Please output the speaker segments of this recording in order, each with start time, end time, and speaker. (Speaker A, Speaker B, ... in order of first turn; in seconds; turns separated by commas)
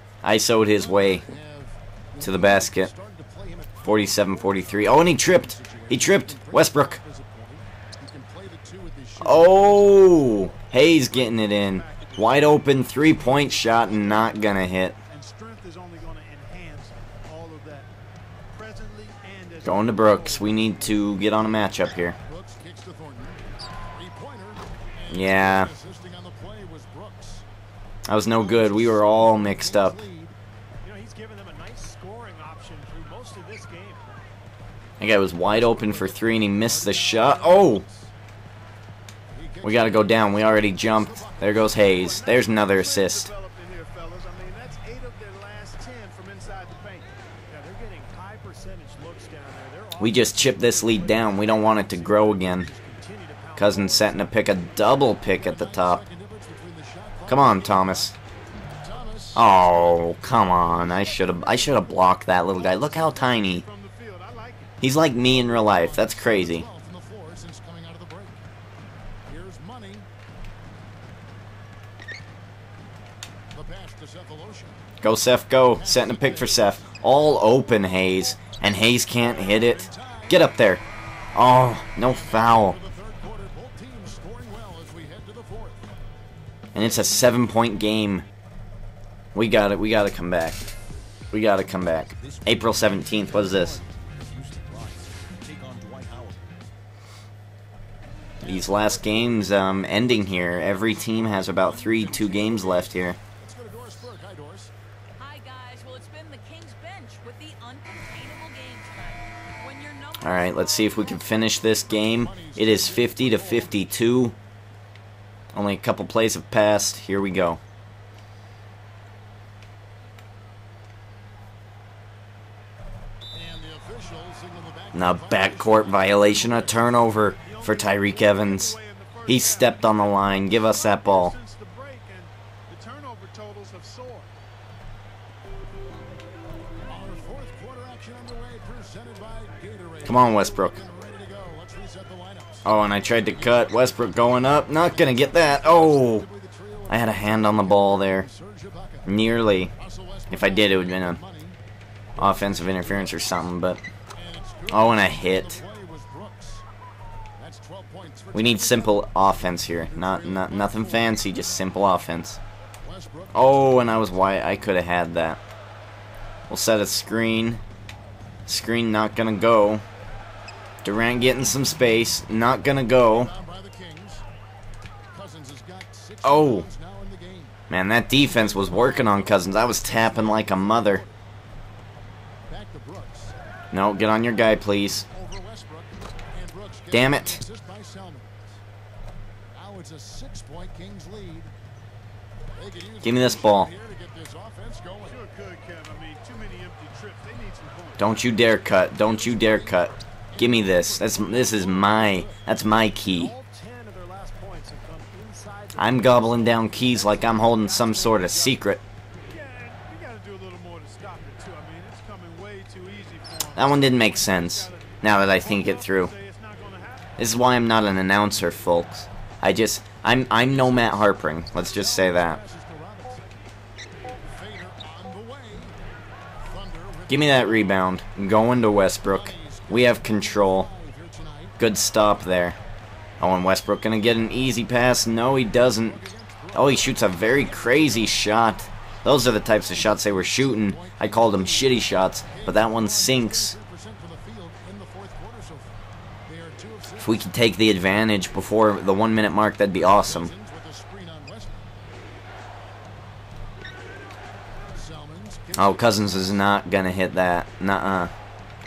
Speaker A: 0.2-1.2, Speaker B: 0.8-10.3, Speaker A: 2.2-2.9, Speaker A: 3.8-7.0, Speaker A: 9.2-15.0, Speaker C: 11.1-12.6, Speaker C: 15.1-17.9, Speaker C: 18.5-20.6, Speaker A: 19.6-22.2, Speaker B: 22.2-27.4, Speaker A: 25.1-25.7, Speaker A: 28.1-30.0, Speaker B: 28.2-30.3, Speaker D: 30.8-34.3, Speaker A: 35.0-37.9, Speaker B: 35.7-38.1, Speaker B: 39.3-42.0, Speaker A: 39.6-43.3, Speaker C: 42.1-47.1, Speaker D: 47.5-54.4, Speaker A: 50.0-52.7, Speaker A: 53.6-56.0, Speaker B: 54.7-58.1, Speaker A: 57.3-58.1, Speaker B: 58.8-59.5, Speaker A: 59.3-63.7, Speaker C: 62.5-64.8, Speaker A: 64.8-66.7, Speaker B: 65.2-68.4, Speaker B: 69.3-70.1, Speaker B: 73.5-74.8, Speaker A: 75.0-80.8, Speaker B: 75.8-76.8, Speaker B: 79.2-80.5, Speaker A: 81.3-82.8, Speaker B: 82.0-85.9, Speaker A: 86.7-88.2, Speaker A: 89.3-90.6, Speaker A: 91.3-93.8, Speaker B: 92.2-92.7, Speaker B: 93.3-96.4, Speaker A: 98.4-103.2, Speaker B: 100.2-104.7, Speaker E: 105.2-111.4, Speaker A: 110.2-114.4, Speaker B: 111.7-113.8, Speaker A: 115.5-117.6, Speaker B: 123.3-127.0, Speaker A: 124.9-131.4, Speaker C: 127.4-134.3, Speaker B: 136.9-151.6, Speaker A: 140.0-140.8, Speaker A: 142.6-146.3, Speaker A: 146.9-148.3, Speaker A: 149.1-149.7, Speaker A: 150.3-151.2, Speaker B: 152.2-153.3, Speaker A: 152.2-153.8, Speaker B: 154.2-156.6, Speaker A: 154.7-155.6, Speaker B: 157.4-159.1, Speaker A: 158.3-162.4, Speaker B: 159.7-161.2, Speaker B: 162.8-164.1, Speaker A: 163.3-165.4, Speaker A: 166.5-167.6, Speaker A: 168.5-169.8, Speaker A: 170.8-173.3, Speaker B: 172.9-174.2, Speaker B: 175.1-177.6, Speaker A: 176.2-176.7, Speaker A: 177.7-181.0, Speaker B: 178.8-181.1, Speaker B: 182.5-183.3, Speaker A: 183.7-185.1, Speaker B: 185.1-188.6, Speaker A: 186.9-187.4, Speaker B: 189.5-191.5, Speaker B: 192.5-195.2, Speaker A: 193.0-193.7, Speaker C: 195.1-198.2, Speaker A: 198.0-203.4, Speaker B: 199.0-202.6, Speaker D: 203.2-208.6, Speaker A: 205.8-208.8, Speaker C: 209.3-217.2, Speaker A: 213.6-216.1, Speaker A: 217.2-222.4, Speaker B: 221.5-223.4, Speaker B: 224.2-225.8, Speaker B: 226.5-227.9, Speaker A: 227.1-230.7, Speaker B: 229.0-231.6, Speaker A: 231.6-232.6, Speaker A: 233.2-243.6, Speaker B: 235.7-238.4, Speaker B: 239.3-247.4, Speaker A: 247.0-250.3, Speaker B: 249.8-251.6, Speaker B: 254.8-256.4, Speaker A: 255.5-258.1